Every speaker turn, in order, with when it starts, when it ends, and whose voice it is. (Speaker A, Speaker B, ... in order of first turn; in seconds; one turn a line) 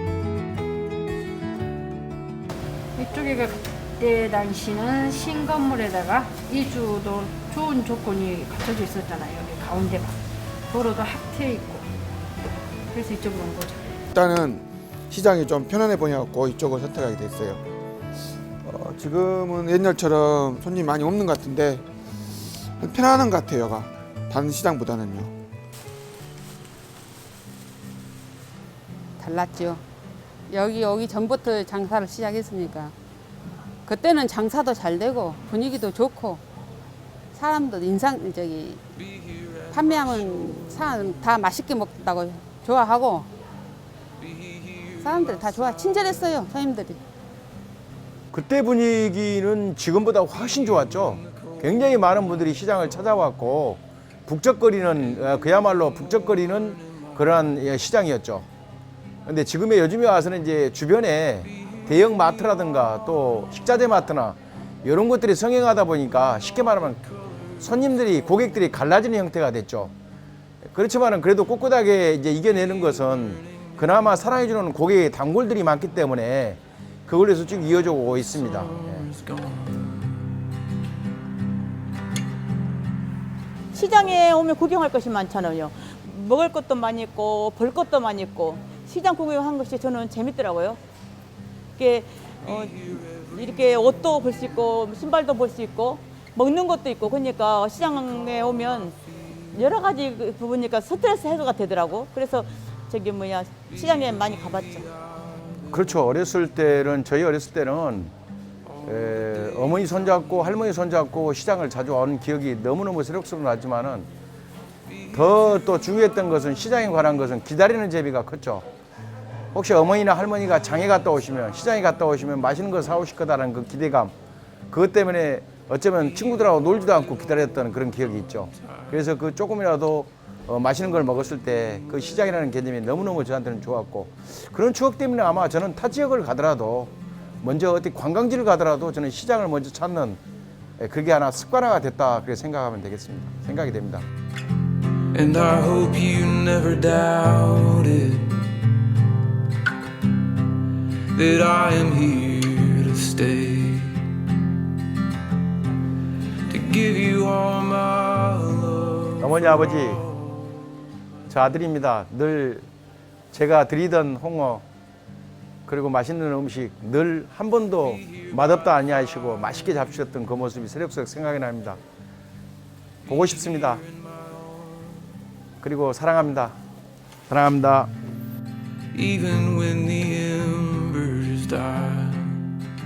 Speaker A: 3.0-10.2
Speaker A: 10.7-11.8
Speaker A: 12.9-13.9
Speaker B: 14.1-17.6
Speaker B: 18.6-21.8
Speaker B: 22.8-25.3
Speaker C: 29.2-29.8
Speaker C: 30.5-32.9
Speaker C: 33.9-36.4
Speaker C: 37.3-38.8
Speaker C: 39.7-43.3
Speaker C: 45.0-47.0
Speaker D: 48.3-58.5
Speaker D: 59.3-67.1
Speaker D: 67.6-69.9
Speaker D: 70.7-79.0
Speaker E: 78.4-80.1
Speaker F: 83.7-90.8
Speaker F: 91.8-98.9
Speaker F: 99.5-104.9
Speaker D: 105.7-108.1
Speaker D: 108.8-114.1
Speaker D: 115.1-118.7
Speaker D: 119.5-124.1
Speaker D: 124.7-140.2
Speaker D: 140.8-144.0
Speaker E: 145.1-148.3
Speaker E: 151.1-154.0
Speaker E: 156.5-159.7
Speaker D: 159.2-160.0
Speaker D: 161.3-162.7
Speaker D: 163.3-164.6
Speaker D: 165.7-171.8
Speaker D: 173.1-173.8
Speaker D: 175.6-176.6
Speaker D: 177.3-177.9
Speaker E: 178.9-182.4